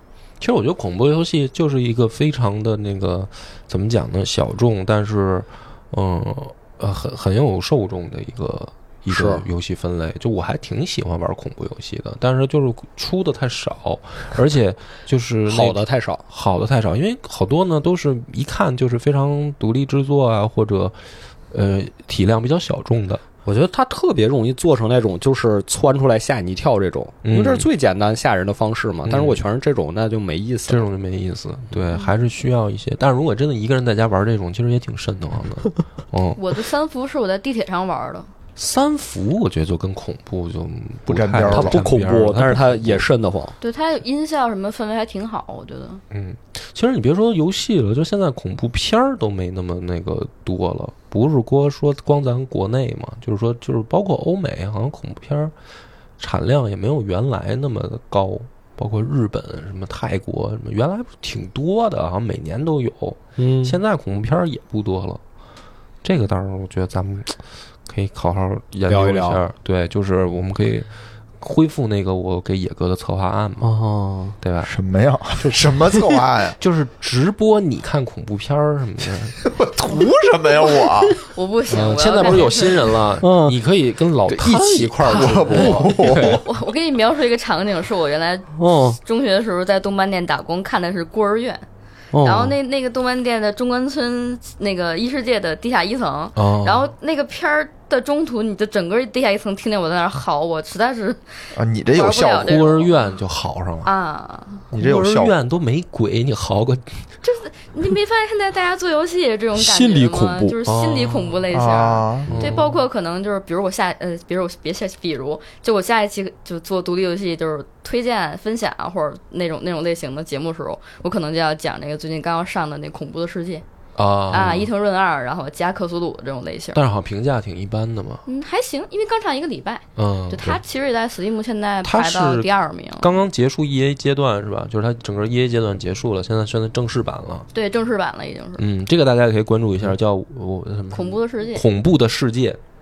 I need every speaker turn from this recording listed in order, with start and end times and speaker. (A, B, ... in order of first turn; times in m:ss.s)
0:00.4-0:21.0 A
0:09.1-0:09.4 B
0:15.5-0:16.2 B
0:21.5-0:23.2 A
0:23.4-0:30.8 B
0:27.2-0:27.7 A
0:29.1-0:29.4 A
0:30.7-0:36.4 A
0:36.4-0:38.3 C
0:38.6-0:43.0 A
0:41.1-0:41.9 D
0:41.5-0:43.5 B
0:43.6-0:46.0 C
0:46.1-0:55.5 A
0:56.2-1:05.2 A
1:03.4-1:03.8 B
1:06.0-1:10.9 A
1:08.9-1:09.4 B
1:11.4-1:13.8 A
1:13.6-1:14.4 B
1:14.4-1:14.7 A
1:14.6-1:16.6 D
1:15.4-1:16.1 B
1:16.6-1:19.4 A
1:19.4-1:21.2 D
1:21.2-1:22.9 C
1:21.7-1:26.4 A
1:23.2-1:23.6 B
1:24.3-1:25.8 B
1:25.0-1:26.4 D
1:26.0-1:31.6 C
1:28.6-1:29.0 B
1:32.1-1:32.5 B
1:32.2-1:41.2 C
1:36.4-1:36.9 A
1:41.5-1:42.5 D
1:41.9-1:43.0 C
1:42.4-1:43.9 A
1:43.8-1:44.6 C
1:44.7-1:45.3 D
1:44.7-1:47.0 A
1:47.2-2:03.6 C
1:49.6-1:50.6 B
1:50.7-1:51.4 A
1:51.5-1:52.4 D
1:52.3-1:52.7 A
2:04.0-2:04.7 A
2:04.3-2:06.8 C
2:06.8-2:08.2 A
2:08.3-2:13.1 C
2:10.0-2:10.6 A
2:11.8-2:17.5 A
2:17.5-2:18.6 C
2:18.6-2:22.6 A
2:20.9-2:21.6 C